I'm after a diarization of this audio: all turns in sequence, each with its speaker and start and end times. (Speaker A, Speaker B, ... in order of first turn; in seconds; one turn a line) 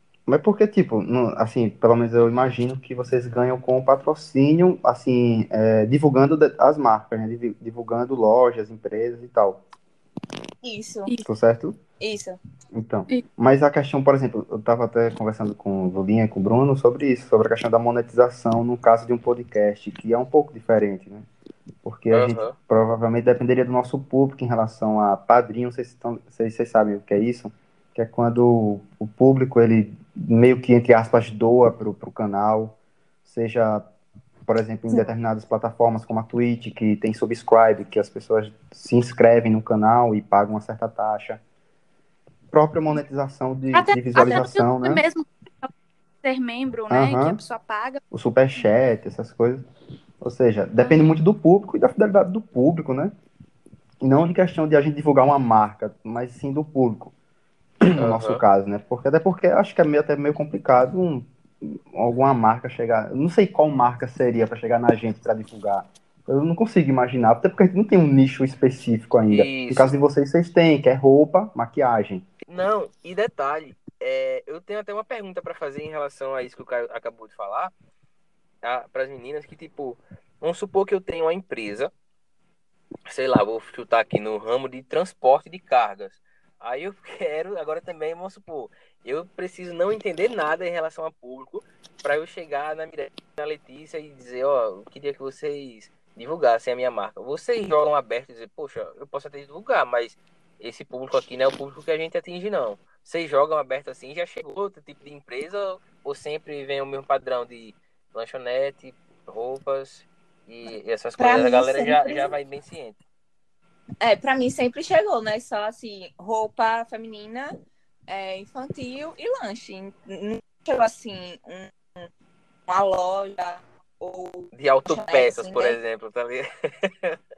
Speaker A: 0.3-9.6
Speaker B: 10.6-11.1
Speaker A: 11.2-11.8
Speaker B: 12.0-12.4
Speaker A: 12.7-21.3
Speaker A: 21.8-33.9
Speaker C: 22.1-22.6
Speaker A: 34.5-41.4
Speaker A: 42.5-45.0
Speaker D: 43.7-45.7
Speaker D: 46.2-48.0
Speaker A: 46.9-47.4
Speaker A: 48.1-49.6
Speaker A: 50.2-53.1
Speaker D: 50.8-51.1
Speaker A: 54.0-57.1
Speaker A: 57.8-72.2
Speaker C: 58.0-58.4
Speaker C: 69.3-69.9
Speaker C: 72.5-77.7
Speaker C: 78.6-81.9
Speaker C: 83.1-113.0
Speaker B: 111.2-112.3
Speaker B: 114.0-117.5
Speaker B: 118.1-122.1
Speaker B: 122.7-125.8
Speaker C: 124.5-127.2